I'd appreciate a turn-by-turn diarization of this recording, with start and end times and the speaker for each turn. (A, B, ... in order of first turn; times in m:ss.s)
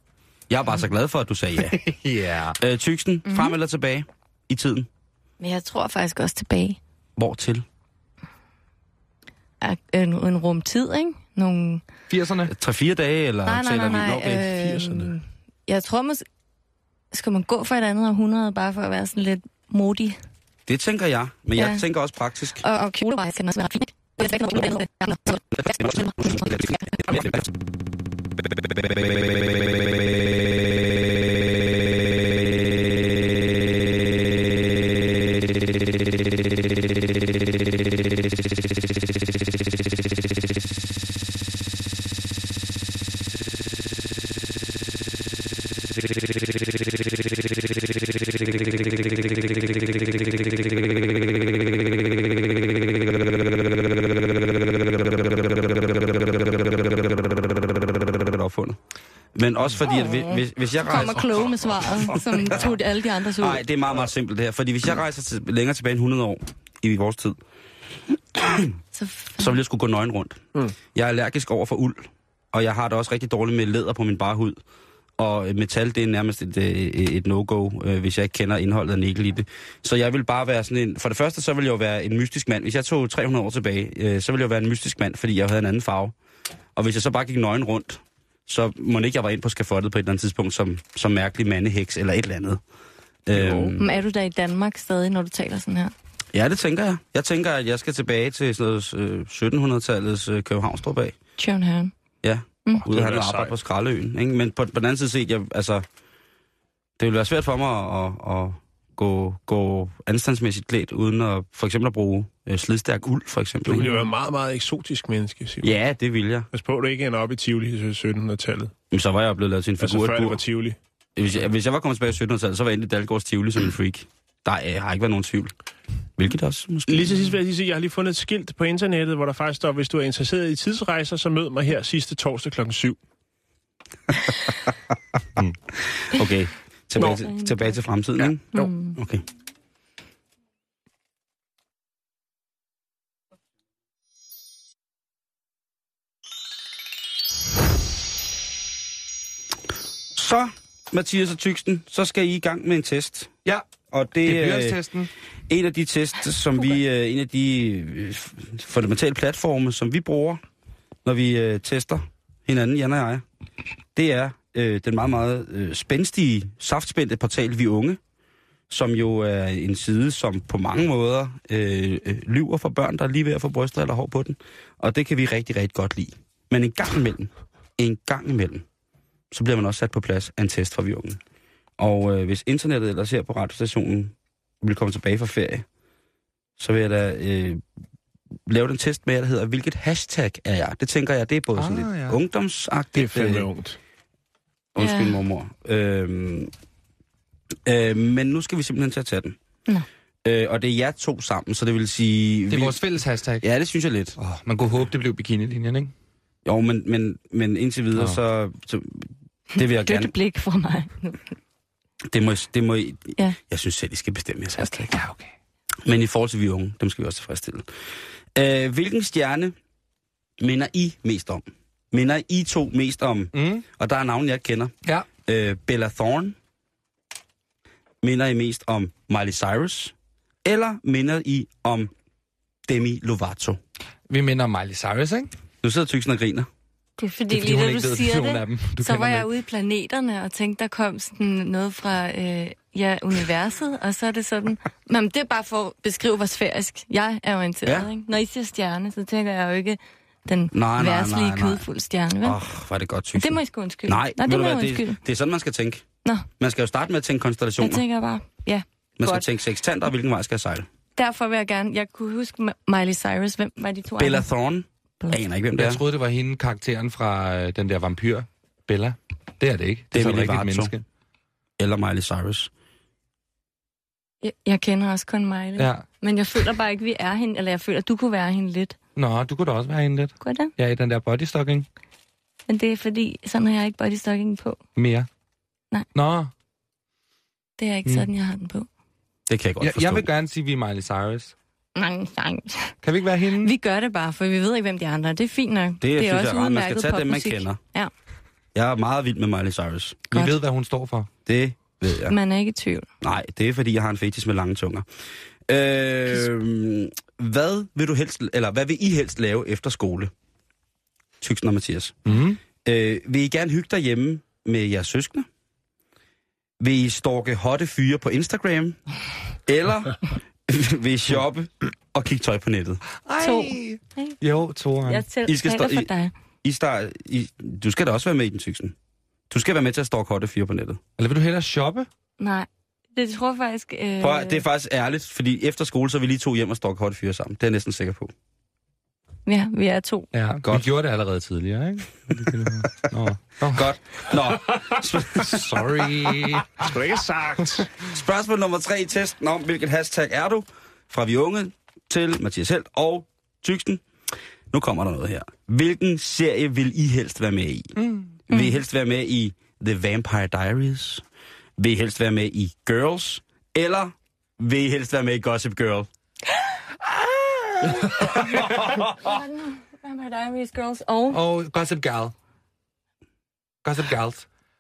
0:00.5-0:01.8 A
0:01.7-0:02.6 B
0:02.6-0:04.9 A
0:03.3-0:03.5 C
0:05.4-0:06.8 C
0:07.2-0:07.6 A
0:09.6-0:11.8 C
0:12.1-0:12.5 B
0:12.5-0:14.6 A
0:13.5-0:16.2 C
0:14.6-0:15.0 D
0:17.1-0:20.2 C
0:20.7-0:22.6 A
0:21.6-0:21.8 C
0:22.6-0:27.2 C
0:25.6-0:27.5 A
0:28.6-0:29.9 A
0:33.6-0:33.9 A
0:49.3-0:58.8 A
0:59.4-1:02.8 A
0:59.8-1:03.6 C
1:03.4-1:07.4 A
1:08.4-1:08.8 A
1:08.9-1:09.6 C
1:09.4-1:10.4 A
1:10.9-1:14.6 A
1:15.2-1:26.2 A
1:26.8-1:32.6 A
1:33.3-1:33.8 A
1:33.3-1:33.8 D
1:33.8-1:35.9 C
1:36.3-1:41.2 A
1:41.4-1:41.9 C
1:42.2-1:45.8 A
1:42.8-1:43.5 D
1:47.0-1:54.0 A
1:53.6-1:55.7 D
1:55.6-1:56.5 A
1:56.5-1:58.7 D
1:58.9-2:00.4 A
1:59.8-2:00.8 D
2:01.2-2:05.5 A
2:06.2-2:07.3 A
2:06.9-2:13.0 D
2:15.4-2:19.2 A
2:17.0-2:17.8 C
2:18.5-2:19.0 C
2:30.2-2:33.3 A
2:33.9-2:34.8 A
2:34.2-2:35.1 B
2:35.5-2:40.4 A
2:41.0-2:43.2 A
2:44.0-2:48.0 A
2:48.7-2:58.6 A
2:59.3-3:01.2 A
3:01.8-3:05.6 A
3:06.6-3:07.6 A
3:08.5-3:13.5 A
3:11.6-3:12.2 B
3:13.0-3:13.8 D
3:14.8-3:16.5 A
3:14.8-3:15.2 C
3:17.7-3:19.4 A
3:20.2-3:22.8 A
3:22.5-3:23.5 B
3:23.4-3:24.2 A
3:24.2-3:25.9 B
3:26.4-3:30.1 A
3:29.6-3:31.4 C
3:32.1-3:34.9 A
3:34.9-3:35.3 B
3:35.8-3:37.7 A
3:38.4-3:39.6 A
3:40.4-3:44.7 A
3:43.3-3:43.6 B
3:45.2-3:46.4 A
3:48.0-3:49.9 A
3:50.4-3:51.9 A
3:52.7-3:53.6 A
3:54.1-3:55.3 B
3:55.6-3:56.5 A
3:57.0-4:12.4 C
3:57.3-3:59.3 B
4:10.5-4:11.6 A
4:12.2-4:15.8 A
4:13.2-4:15.0 C
4:16.4-4:17.8 A
4:17.6-4:19.3 C
4:19.0-4:20.7 A
4:21.0-4:24.3 C
4:24.0-4:25.8 A
4:25.6-4:30.8 B
4:29.9-4:30.7 A
4:31.6-4:32.5 A
4:34.2-4:38.8 C
4:35.6-4:35.8 B
4:39.0-4:41.7 B
4:40.2-4:40.5 C
4:42.5-4:44.6 C
4:44.8-4:45.1 B
4:45.9-4:46.3 B
4:47.6-4:48.7 C
4:49.3-4:50.1 A
4:49.6-4:51.3 B
4:51.8-4:52.8 C
4:52.8-4:53.5 B
4:53.4-4:57.9 C
4:55.8-4:57.6 A
4:58.6-5:00.1 A
5:00.1-5:01.1 B
5:01.3-5:02.2 A
5:02.1-5:02.9 C
5:03.0-5:04.8 A
5:05.5-5:10.1 A
5:11.2-5:15.3 A
5:12.1-5:12.4 B
5:16.6-5:18.8 A
5:19.5-5:22.8 A
5:23.0-5:25.0 B
5:23.2-5:24.2 C
5:24.9-5:26.1 C
5:25.3-5:25.9 A
5:26.4-5:28.8 A
5:29.3-5:30.8 A
5:31.0-5:31.9 B
5:32.2-5:34.4 C
5:34.0-5:38.1 A
5:39.3-5:40.1 C
5:40.1-5:43.7 B
5:40.4-5:40.7 A
5:43.4-5:46.4 A
5:45.2-5:46.7 B
5:46.6-5:47.7 D
5:47.8-5:53.8 A
5:54.5-5:57.8 A
5:57.8-5:58.1 B
5:58.3-6:01.0 A
5:58.3-5:58.6 C
6:01.6-6:05.9 A
6:06.9-6:08.0 B
6:08.0-6:11.2 C
6:08.2-6:08.9 A
6:11.1-6:12.1 B
6:13.6-6:14.3 B